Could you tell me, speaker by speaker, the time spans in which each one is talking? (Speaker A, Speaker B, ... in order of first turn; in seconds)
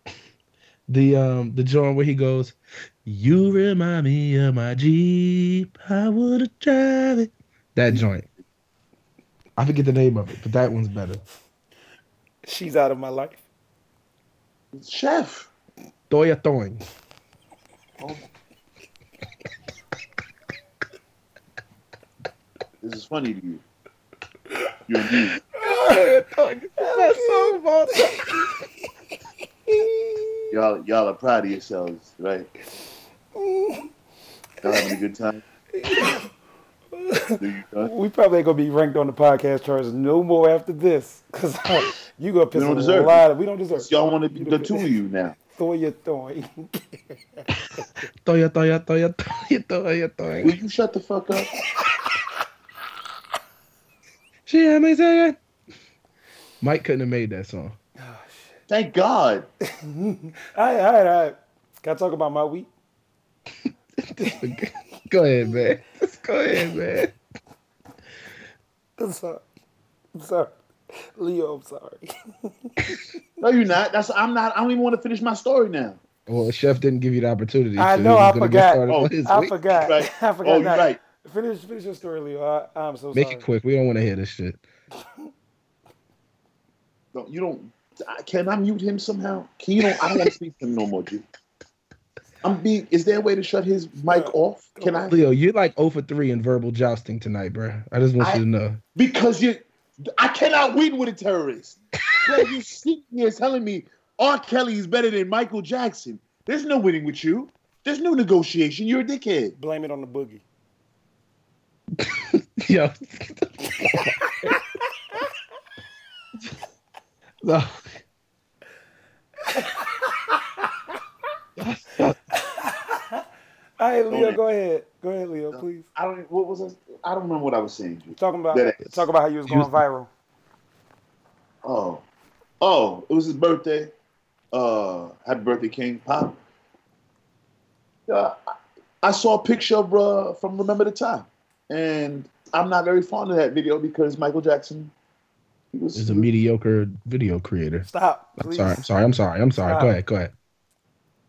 Speaker A: 0.9-8.3, 9.6-11.2, 16.1-16.8, 25.6-28.4, 48.2-50.5, 54.5-55.4, 56.6-57.8, 64.0-67.2, 76.3-79.5, 83.1-84.6, 95.1-98.8, 112.0-114.6, 117.4-118.0, 121.6-122.2, 129.5-129.8, 145.9-150.3
Speaker B: 12.4-13.4, 25.6-26.0, 26.8-28.5, 29.7-30.5, 33.4-33.9, 34.7-35.0, 35.7-36.3, 36.9-44.9, 45.5-47.9, 51.5-52.0, 58.0-58.6, 59.7-62.7, 69.0-69.4, 70.2-73.2, 77.8-83.5, 94.1-95.2, 109.6-110.4, 119.4-120.7, 122.3-123.2, 123.8-125.9, 128.2-130.1, 147.9-148.9, 149.6-149.9
Speaker C: 14.7-15.5, 22.8-23.6, 24.9-25.4, 30.5-32.5, 34.6-35.4, 37.4-37.9, 42.5-43.2, 43.8-45.4, 50.4-51.5, 58.7-59.5, 73.4-76.0, 78.9-81.0, 87.1-91.2, 92.4-95.2, 99.0-99.7, 100.2-109.6, 124.1-124.4, 125.5-129.0, 131.6-132.0, 132.6-133.9, 134.5-136.4, 138.1-138.4, 139.0-144.9, 145.7-146.3